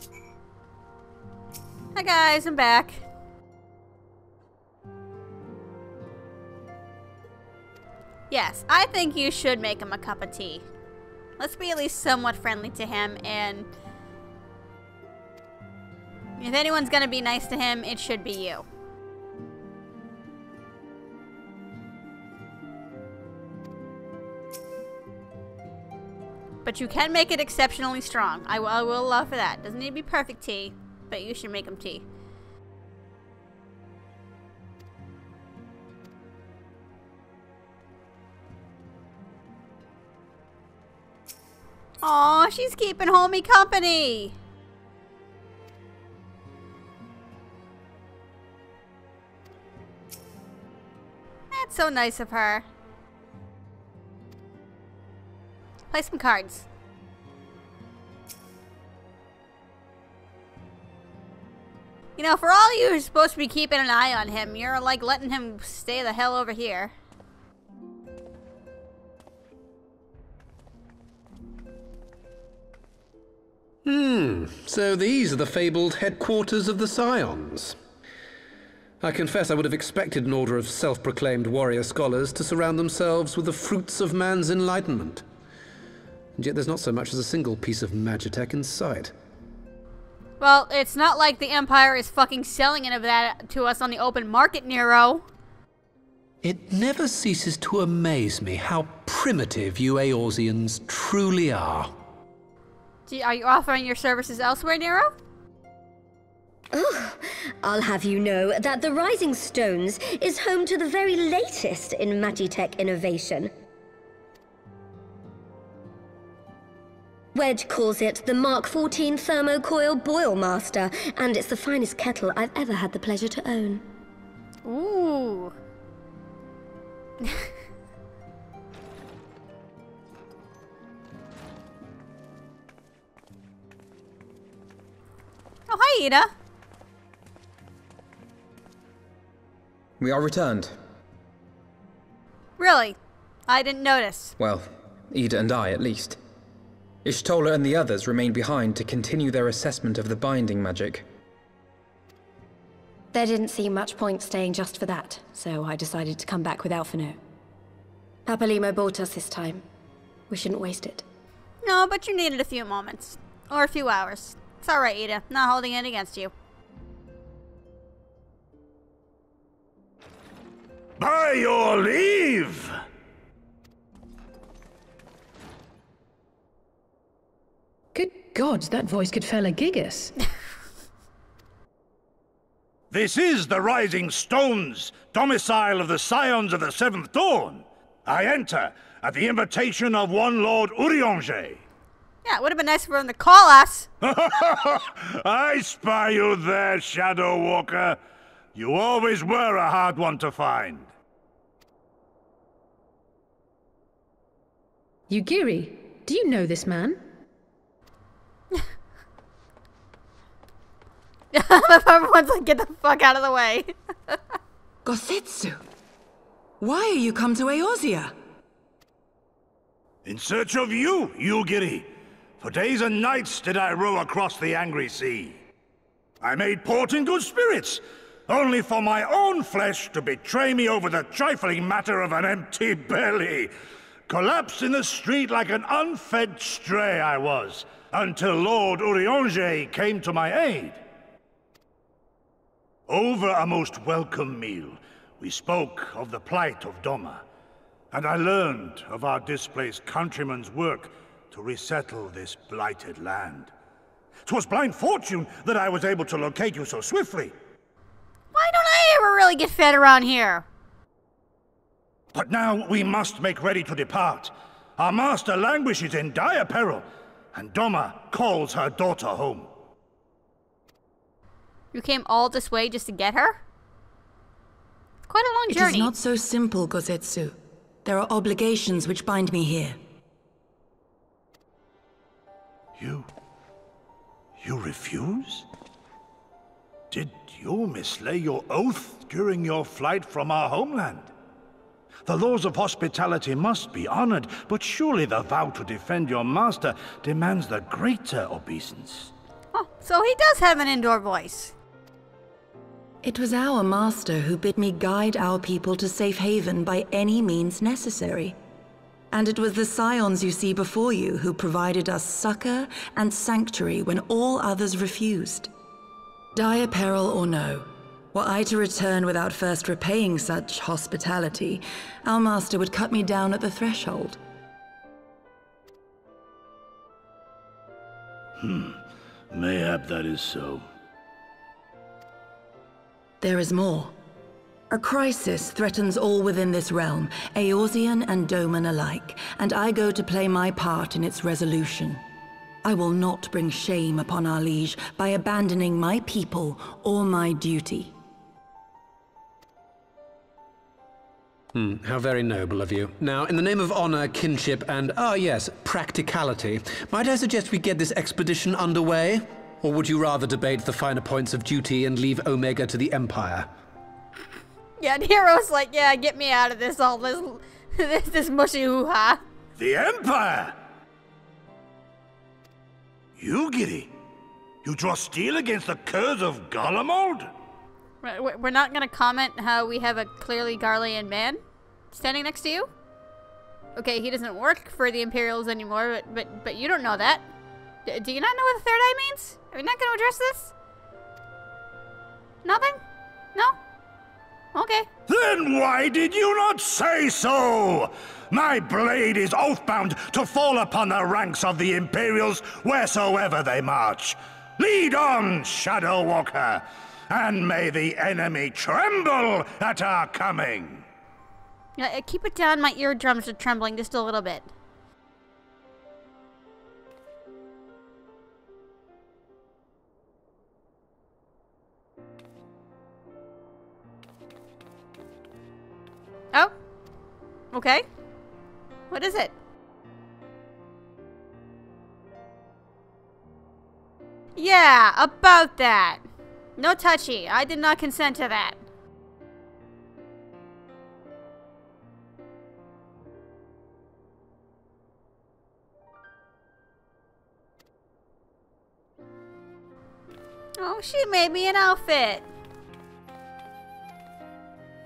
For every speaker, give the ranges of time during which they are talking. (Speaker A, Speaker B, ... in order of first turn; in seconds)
Speaker A: 1.9-3.0, 8.3-10.6, 11.4-13.7, 16.4-18.6, 26.6-32.0, 42.0-44.3, 51.5-52.6, 55.9-56.6, 62.2-66.9, 90.4-95.2, 103.1-105.1, 124.6-125.5, 135.7-136.3, 142.6-142.9, 143.5-144.3, 161.6-166.3, 192.2-193.9, 211.3-214.2, 258.3-260.5, 271.7-273.4, 275.1-275.9, 299.5-301.5, 364.8-369.2, 378.0-382.7, 383.8-387.2, 387.9-390.5, 392.4-392.8, 394.5-394.9, 411.8-414.5, 427.5-427.8, 428.9-429.3, 434.4-436.0, 436.6-438.6, 450.6-452.3
Speaker B: 73.8-77.8, 79.0-85.2, 86.4-89.1, 96.4-101.9, 351.5-363.5
Speaker C: 106.7-113.5, 117.3-123.8
Speaker D: 140.0-140.8, 144.4-146.2, 147.0-151.0
Speaker E: 153.1-157.2, 158.2-159.6, 160.3-161.0
Speaker F: 171.0-172.7, 182.9-191.6, 194.0-198.0, 198.5-200.9, 220.0-225.4, 226.2-233.5, 234.1-240.8, 242.9-247.2, 247.9-253.5, 254.2-257.3, 262.1-269.5, 282.8-283.1, 284.4-285.4, 286.9-291.1, 292.1-299.1, 328.4-330.6, 369.6-370.6, 373.2-373.9, 374.6-377.3, 395.1-410.8
Speaker G: 177.9-180.2, 205.1-207.0
Speaker H: 214.8-215.6, 216.6-218.1, 275.5-279.8, 303.0-308.4, 309.1-315.5, 316.3-324.2, 333.2-333.9, 334.7-342.0, 342.6-347.9